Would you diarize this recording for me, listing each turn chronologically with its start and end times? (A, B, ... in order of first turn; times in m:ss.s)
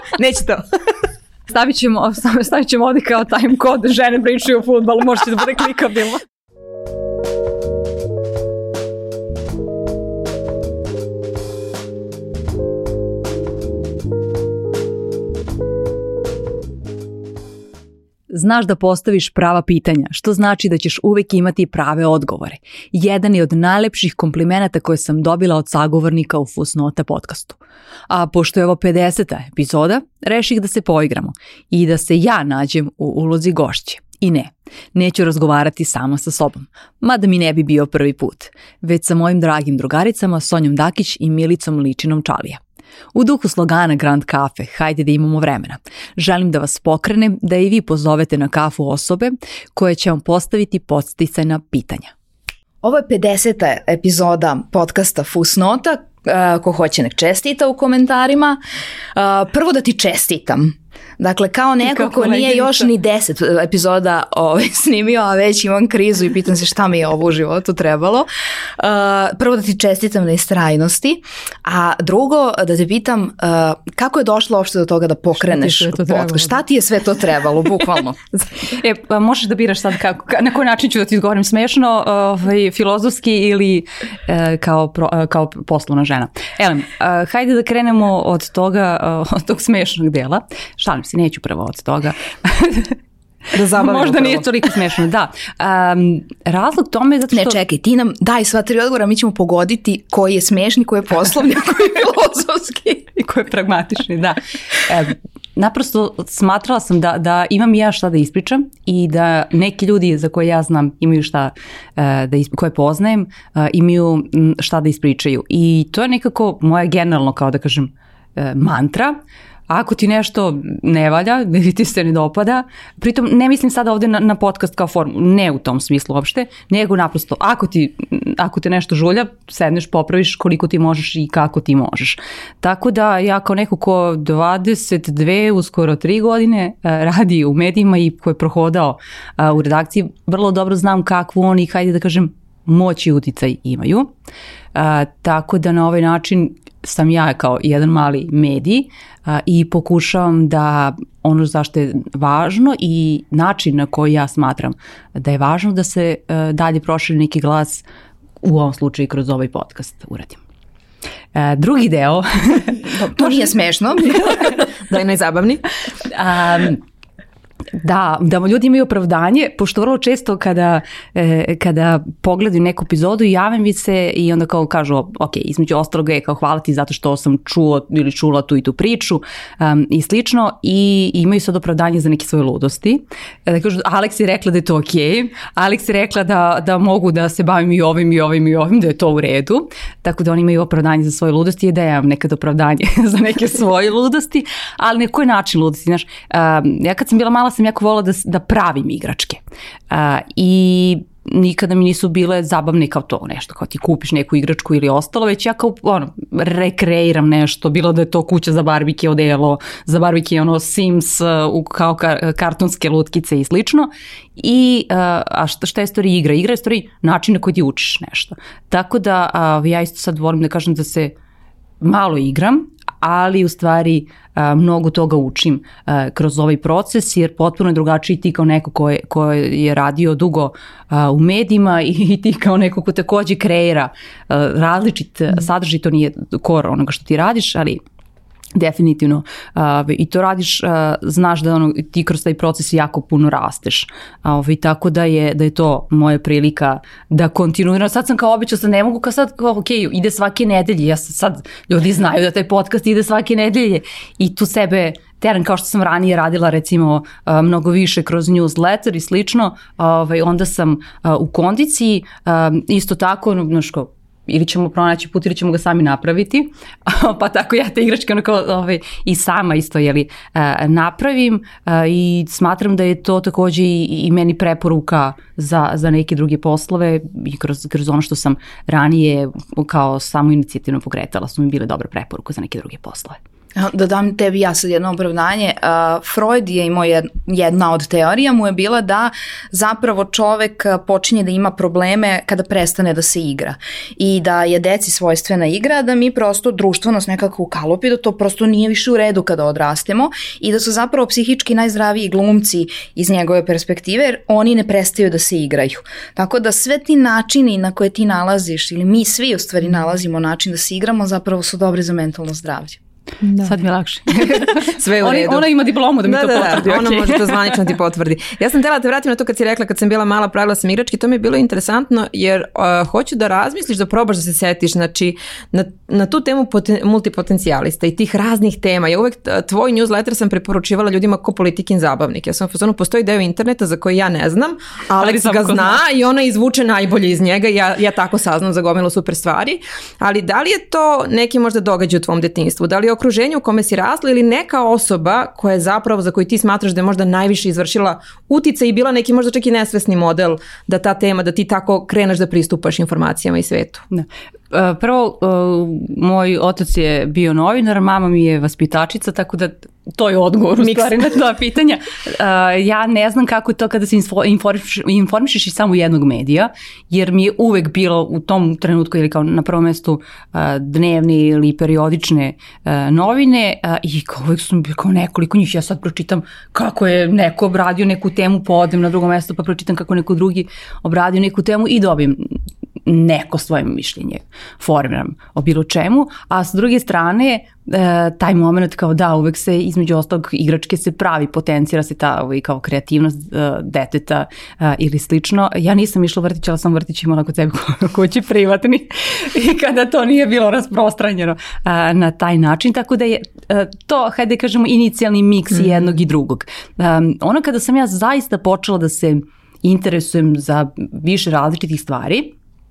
0:00.1-0:00.6 A
0:01.5-0:06.2 B
0:18.3-0:27.6 B
0:28.1-0:42.6 B
0:43.1-0:52.1 B
0:52.8-0:58.6 C
0:59.1-1:18.2 C
1:01.8-1:02.9 B
1:15.4-1:16.6 B
1:18.6-1:33.0 B
1:33.5-1:34.4 A
1:33.7-1:37.6 B
1:37.3-1:43.1 C
1:43.1-1:59.2 B
1:59.7-2:24.1 B
2:24.7-2:37.8 B
2:38.4-2:40.4 B
2:41.3-2:43.2 B
2:42.8-2:44.5 C
2:44.9-2:45.6 A
2:46.1-2:46.8 B
2:47.8-3:41.1 B
3:41.8-3:57.8 B
3:58.5-4:43.2 B
4:43.6-5:12.8 C
5:13.2-5:13.5 A
5:13.4-5:17.5 B
5:14.2-5:15.5 A
5:16.0-5:53.8 A
5:35.0-5:35.8 B
5:53.9-6:52.3 B
6:00.6-6:00.9 A